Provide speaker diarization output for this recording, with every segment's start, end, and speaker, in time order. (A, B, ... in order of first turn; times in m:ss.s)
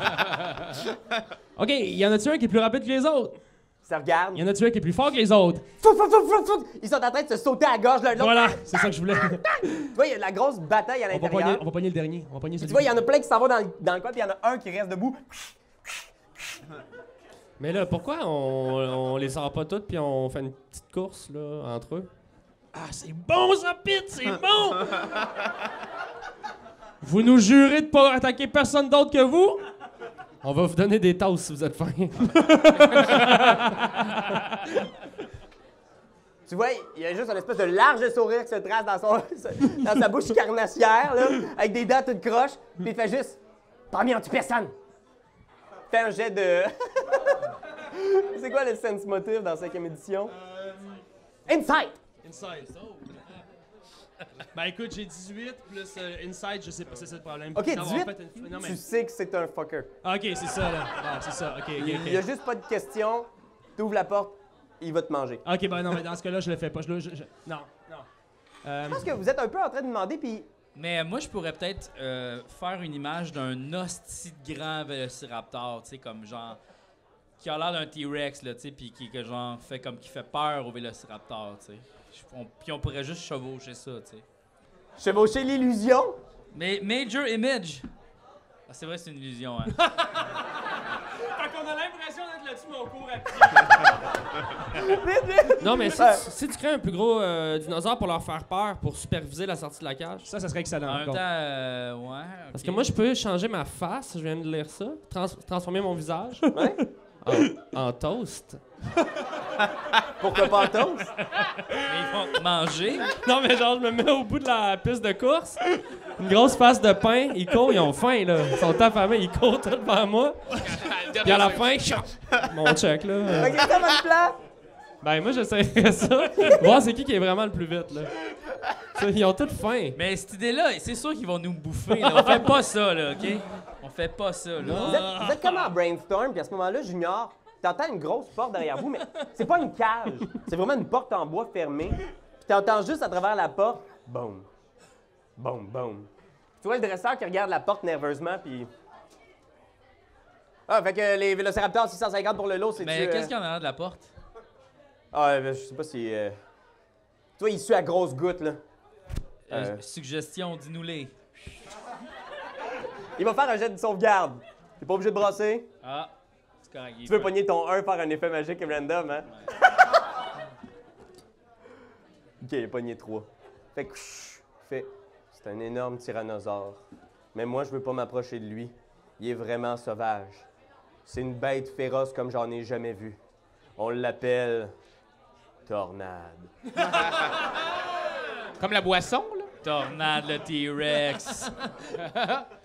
0:01.6-0:03.4 A
0:03.8-0:04.4 B
0:04.4-0:05.7 A
0:05.8-0:11.6 B
0:08.2-0:09.5 A
0:11.1-0:12.9 A
0:12.6-0:16.6 B
0:17.6-0:22.1 C
0:22.7-0:25.2 A
0:27.0-0:29.6 A
0:30.4-0:34.4 C
0:32.4-0:34.1 A
0:36.5-0:43.4 B
0:43.9-0:44.7 B
0:45.9-0:47.2 B
0:47.8-0:50.4 B
0:51.5-0:52.0 B
0:52.2-0:53.0 A
0:54.5-0:58.8 A
0:57.6-0:59.9 B
1:00.0-1:02.2 A
1:01.8-1:05.4 B
1:05.4-1:08.1 A
1:08.6-1:09.1 A
1:08.9-1:10.5 B
1:10.8-1:16.6 D
1:17.4-1:24.2 D
1:25.0-1:26.2 B
1:26.5-1:27.8 D
1:28.7-1:29.8 D
1:29.8-1:30.6 A
1:31.2-1:34.0 A
1:34.7-1:36.2 B
1:35.6-1:40.3 C
1:40.3-1:41.2 A
1:40.9-1:42.9 D
1:42.5-1:46.4 C
1:46.5-1:46.8 B
1:47.2-1:48.6 C
1:50.2-1:51.1 B
1:51.8-1:53.1 D
1:53.1-1:55.6 C
1:56.2-2:00.6 C
2:00.6-2:01.8 E
2:01.2-2:03.7 C
2:03.3-2:04.4 B
2:05.0-2:08.1 C
2:08.9-2:10.0 C
2:10.0-2:15.0 D
2:14.6-2:15.7 A
2:14.7-2:24.5 B
2:25.4-2:26.1 B
2:26.6-2:28.7 B
2:30.7-2:33.3 B
2:32.8-2:34.1 D
2:35.1-2:36.4 B
2:37.4-2:38.6 B
2:39.5-2:41.1 D
2:39.5-2:39.8 B
2:43.2-2:45.7 B
2:45.8-2:46.1 D
2:46.6-2:47.4 D
2:47.1-2:49.3 B
2:52.4-3:00.5 B
3:01.1-3:03.2 B
3:03.8-3:04.7 B
3:05.7-3:06.5 B
3:08.6-3:09.5 E
3:09.6-3:11.5 D
3:12.0-3:12.5 E